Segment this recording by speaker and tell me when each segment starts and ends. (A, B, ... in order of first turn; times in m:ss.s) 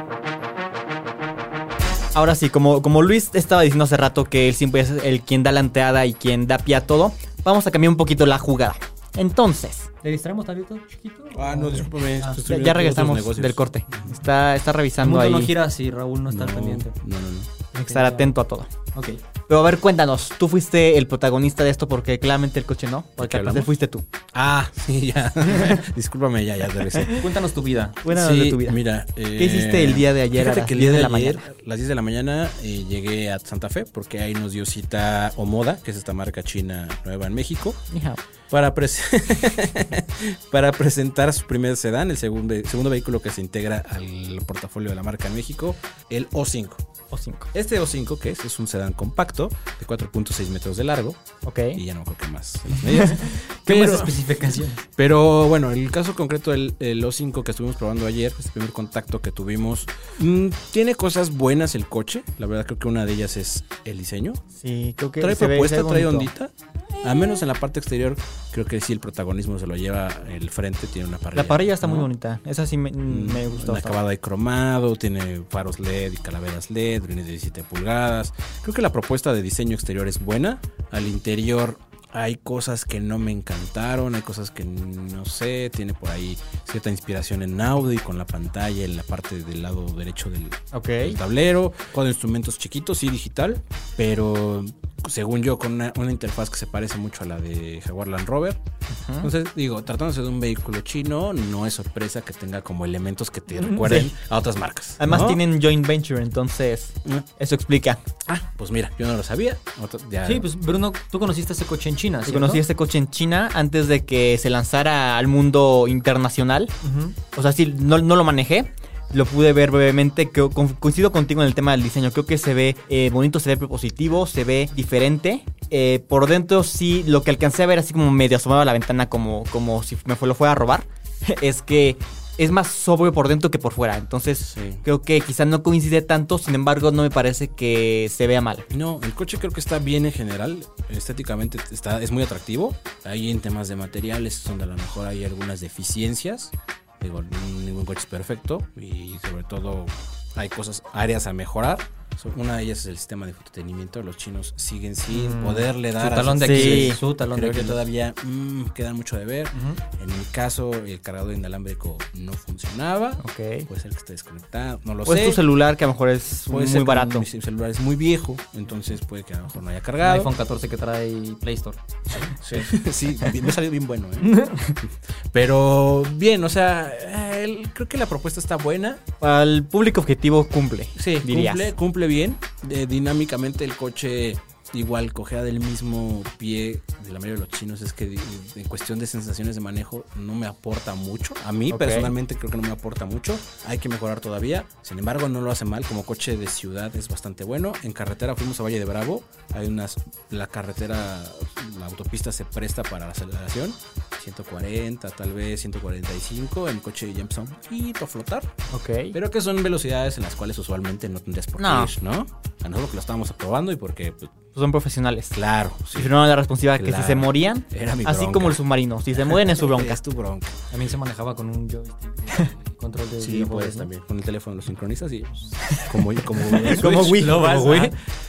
0:02.1-0:09.9 A
0:10.0-0:12.4 B
0:11.3-0:14.1 C
0:12.4-0:15.5 A
0:15.0-0:17.0 B
0:16.3-0:17.5 C
0:17.7-0:18.7 A
0:17.8-0:18.3 B
0:19.0-0:19.2 B
0:19.5-0:24.0 A
0:23.2-0:23.7 C
0:24.3-0:27.2 C
0:27.1-0:28.0 B
0:28.0-0:28.8 A
0:28.1-0:37.8 C
0:29.4-0:31.4 A
0:37.9-0:38.2 A
0:38.5-0:46.8 C
0:47.1-0:47.5 A
0:47.5-0:51.2 C
0:51.4-0:51.8 A
0:51.7-0:54.2 C
0:53.7-0:54.8 B
0:55.0-1:04.4 C
1:04.6-1:06.3 A
1:05.2-1:12.1 C
1:11.4-1:14.0 A
1:13.1-1:38.6 C
1:30.7-1:31.2 A
1:38.9-1:39.3 A
1:39.2-1:45.4 C
1:43.6-1:43.9 B
1:45.0-1:48.0 A
1:48.2-1:50.5 C
1:50.2-1:52.6 B
1:52.3-1:56.8 A
1:56.8-1:57.2 B
1:57.3-2:18.7 A
2:14.5-2:14.8 C
2:18.7-2:45.4 C
2:35.1-2:37.8 B
2:36.4-2:37.0 A
2:39.5-2:39.8 B
2:43.2-2:43.7 A
2:45.0-2:47.3 A
2:46.5-2:50.3 C
2:50.0-2:52.3 B
2:52.3-2:59.0 C
2:54.2-2:54.6 B
2:59.2-3:01.7 A
3:01.0-3:28.5 C
3:11.7-3:12.1 A
3:28.7-3:29.2 A
3:29.1-3:34.3 C
3:31.6-3:31.9 A
3:34.6-3:35.4 A
3:35.3-3:36.2 C
3:35.9-3:40.0 A
3:36.7-3:38.6 C
3:39.2-3:40.6 C
3:40.7-3:43.9 B
3:43.2-3:48.0 C
3:46.6-3:47.8 A
3:46.6-3:47.9 B